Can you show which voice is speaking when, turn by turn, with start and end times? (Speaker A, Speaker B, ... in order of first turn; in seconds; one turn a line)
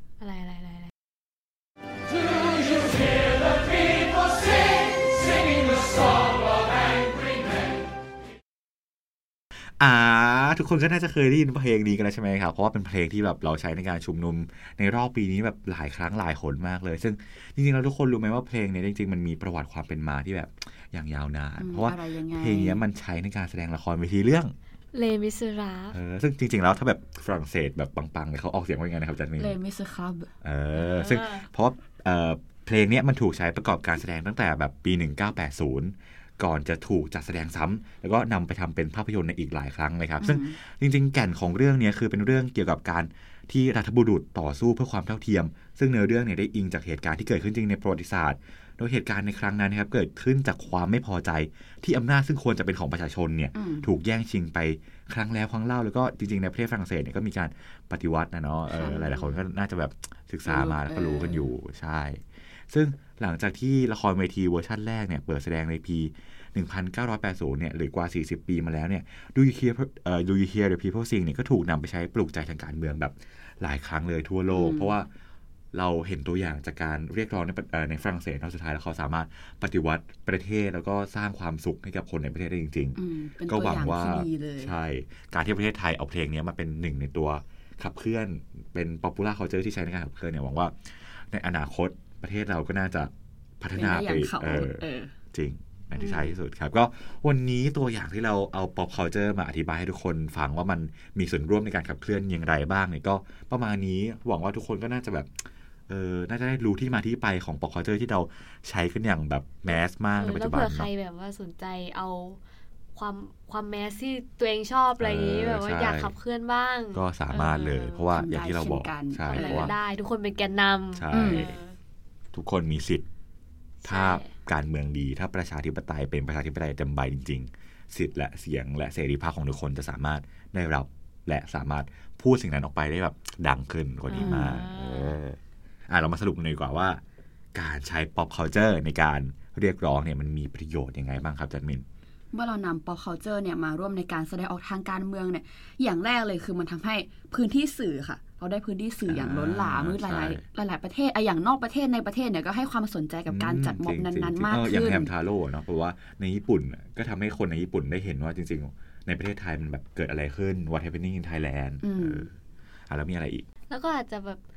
Speaker A: 0.2-0.9
Speaker B: 9.8-24.5
Speaker C: 21.6-22.8
Speaker A: 24.9-26.0
Speaker B: 25.9-29.6
Speaker C: 29.4-30.3
Speaker B: 30.4-75.1
Speaker A: 30.7-31.5
Speaker C: 40.2-40.5
Speaker C: 53.5-53.9
Speaker C: 58.7-59.3
Speaker C: 60.5-61.5
Speaker C: 74.5-74.9
Speaker B: 75.7-90.7
Speaker C: 83.0-84.7
Speaker B: 91.3-105.3
Speaker C: 93.7-95.1
Speaker C: 96.0-96.3
Speaker B: 105.9-110.9
Speaker A: 109.7-112.4
Speaker A: 112.9-118.0
Speaker B: 115.0-116.1
Speaker B: 116.9-119.7
Speaker C: 118.1-119.7
Speaker A: 119.2-121.8
Speaker B: 120.9-121.6
Speaker C: 121.1-121.5
Speaker B: 122.3-123.0
Speaker A: 123.8-124.3
Speaker B: 123.8-135.4
Speaker A: 134.1-135.2
Speaker C: 134.1-134.6
Speaker B: 135.9-137.0
Speaker B: 137.5-141.8
Speaker C: 142.3-155.1
Speaker B: 149.1-150.4
Speaker B: 153.3-162.3
Speaker C: 161.8-162.3
Speaker B: 162.9-163.4
Speaker A: 163.7-164.4